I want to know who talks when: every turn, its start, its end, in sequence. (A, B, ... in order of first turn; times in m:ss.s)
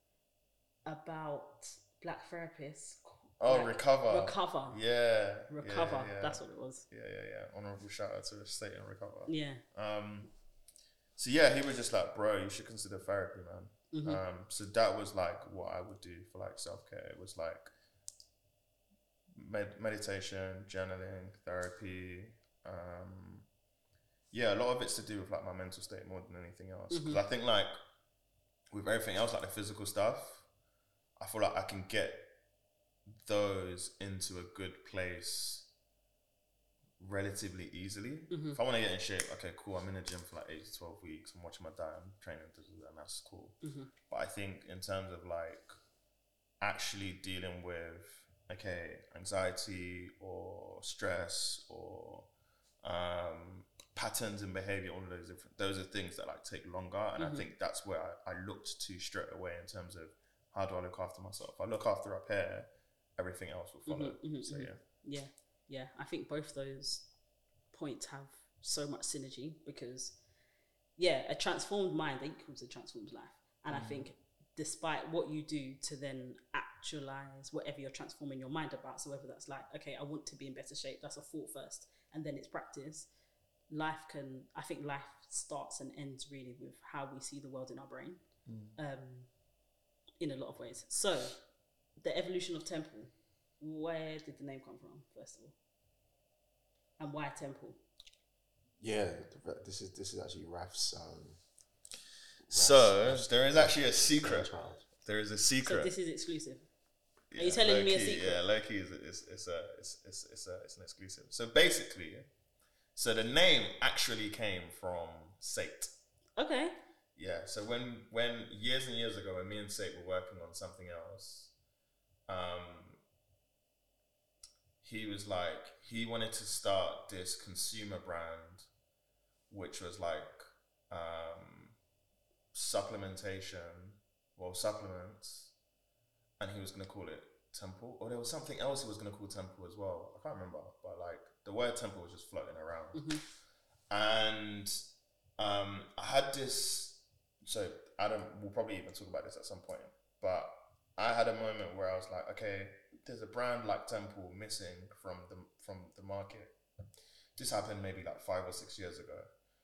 0:00.8-0:04.8 A
0:03.4-0:10.3 B
0:05.5-0:06.8 A
0:09.3-0:09.6 A
0:11.2-0:17.7 B
0:13.9-0:14.2 A
0:19.3-0:23.5 B
0:24.3-0:27.7 B
0:26.9-0:27.2 A
0:28.7-0:30.5 B
0:31.2-0:32.3 B
0:33.2-0:35.7 B
0:37.0-0:43.6 B
0:38.3-0:38.6 A
0:43.6-0:43.9 A
0:44.1-0:45.8 B
0:46.6-0:52.3 B
0:52.8-1:04.8 B
0:57.2-0:57.4 A
1:03.8-1:07.1 A
1:07.7-1:10.2 A
1:11.0-1:23.1 A
1:13.7-1:14.0 B
1:23.7-1:28.2 A
1:28.4-1:28.8 B
1:28.8-1:29.3 A
1:30.2-1:31.4 A
1:32.0-1:35.5 A
1:37.0-1:37.8 A
1:38.8-1:41.4 C
1:42.5-1:44.8 C
1:42.5-1:45.9 B
1:45.6-1:46.7 A
1:47.3-1:52.3 B
1:47.4-1:48.4 A
1:52.9-1:55.9 B
1:56.4-1:56.7 A
1:57.2-2:01.5 B
2:02.3-2:03.0 B
2:04.8-2:08.7 B
2:09.5-2:11.8 B
2:12.5-2:15.5 B
2:16.4-2:23.2 B
2:22.9-2:23.2 A
2:23.9-2:24.8 B
2:25.4-2:36.6 B
2:37.4-2:39.3 B